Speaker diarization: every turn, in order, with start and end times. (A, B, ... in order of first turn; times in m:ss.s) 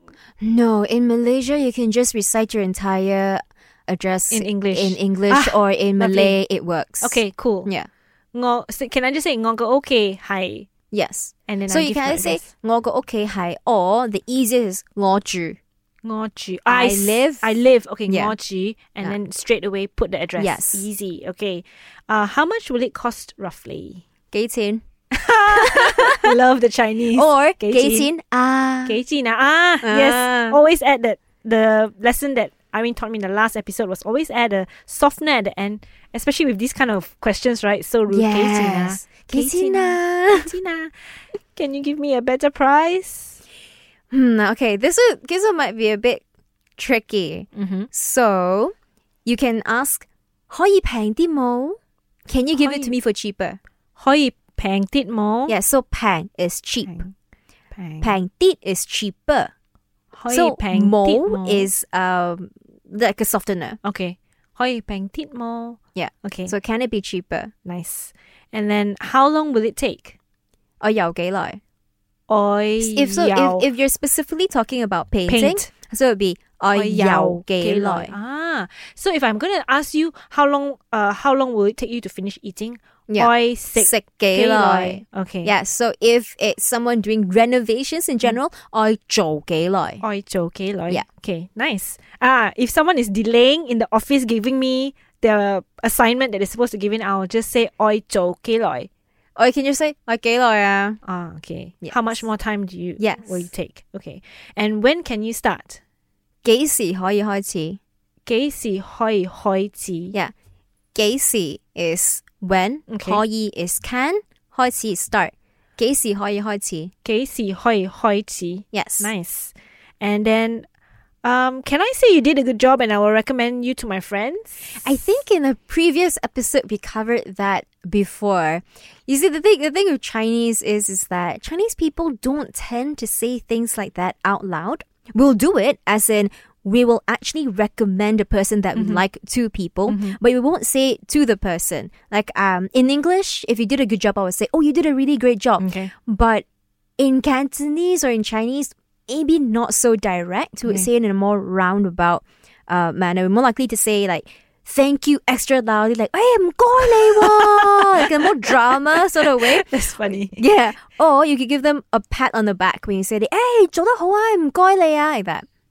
0:00.4-0:07.9 A
0:04.3-0:06.4 B
0:07.0-0:07.7 B
0:08.3-0:10.7 B
0:10.9-0:15.6 A
0:11.5-0:12.5 B
0:16.0-0:24.0 B
0:16.7-0:17.6 A
0:18.1-0:18.3 A
0:20.4-0:20.9 A
0:24.3-0:24.8 A
0:25.1-0:28.1 B
0:25.5-0:26.4 A
0:27.1-0:29.0 A
0:28.8-0:40.9 B
0:29.8-0:30.6 A
0:38.1-0:40.5 A
0:41.6-0:43.4 B
0:44.1-0:46.2 A
0:46.8-0:48.7 A
0:47.5-0:47.9 B
0:49.2-0:53.6 A
0:52.6-0:53.0 B
0:54.0-0:55.6 B
0:55.5-0:57.0 A
0:56.9-0:57.1 B
0:57.8-0:58.2 B
0:58.0-0:59.5 A
1:00.1-1:01.7 B
1:00.3-1:03.8 A
1:03.8-1:06.5 B
1:06.0-1:07.5 A
1:07.6-1:10.2 B
1:10.8-1:11.6 A
1:12.3-1:13.7 B
1:12.8-1:18.2 A
1:15.3-1:15.7 B
1:16.7-1:25.5 B
1:23.1-1:30.0 A
1:30.0-1:38.9 B
1:39.4-1:41.0 A
1:41.0-1:45.8 B
1:41.8-1:42.2 A
1:43.0-1:43.5 A
1:46.4-1:47.8 A
1:48.3-1:50.2 B
1:51.0-1:56.9 A
1:52.9-1:53.2 B
1:57.0-2:00.7 B
1:58.7-1:59.1 A
2:01.2-2:04.8 B
2:04.8-2:26.4 A
2:18.8-2:19.0 B
2:19.9-2:20.2 B
2:25.6-2:25.9 B
2:27.0-2:39.7 A
2:36.8-2:40.4 B
2:40.3-2:45.5 A